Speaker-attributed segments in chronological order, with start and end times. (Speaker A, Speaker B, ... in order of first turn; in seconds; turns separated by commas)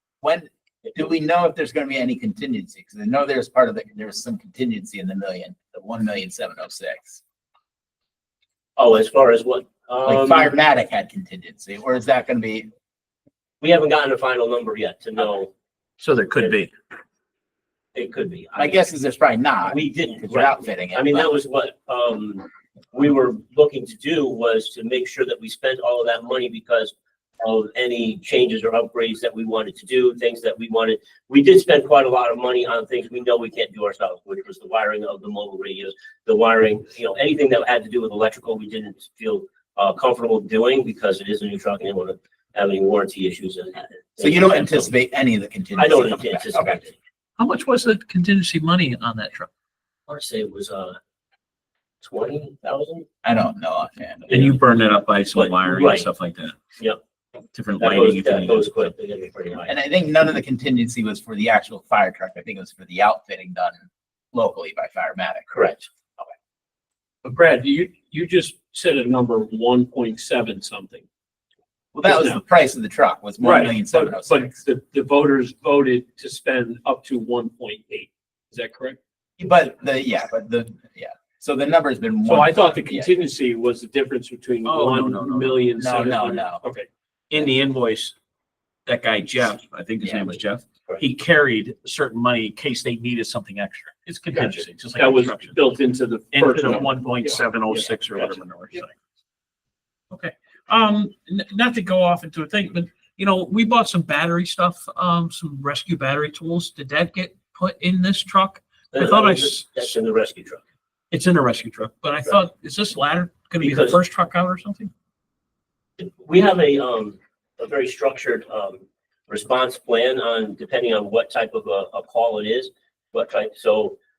Speaker A: 0.2-7.2, Speaker B: 8.8-10.5, Speaker A: 10.1-12.7, Speaker B: 13.6-15.5, Speaker C: 16.0-16.7, Speaker B: 17.9-18.8, Speaker A: 18.5-21.4, Speaker B: 19.7-44.9, Speaker A: 44.2-46.8, Speaker B: 45.8-47.0, Speaker C: 47.4-49.5, Speaker B: 50.1-51.0, Speaker B: 52.0-53.0, Speaker A: 53.2-54.4, Speaker B: 54.3-54.6, Speaker C: 54.3-56.5, Speaker B: 55.3-56.1, Speaker C: 57.5-58.9, Speaker B: 57.8-59.8, Speaker A: 59.7-63.8, Speaker A: 64.3-65.5, Speaker B: 65.5-65.9, Speaker D: 67.2-71.0, Speaker A: 71.9-74.5, Speaker D: 72.0-72.4, Speaker D: 73.4-79.0, Speaker A: 79.4-83.1, Speaker D: 82.2-86.9, Speaker C: 84.6-85.7, Speaker A: 85.8-86.6, Speaker C: 87.3-88.1, Speaker C: 88.8-95.6, Speaker A: 90.0-90.3, Speaker D: 94.3-98.3, Speaker C: 96.3-98.9, Speaker C: 100.1-109.9, Speaker B: 108.9-110.6, Speaker C: 111.1-114.9, Speaker B: 113.6-114.0, Speaker B: 116.0-124.0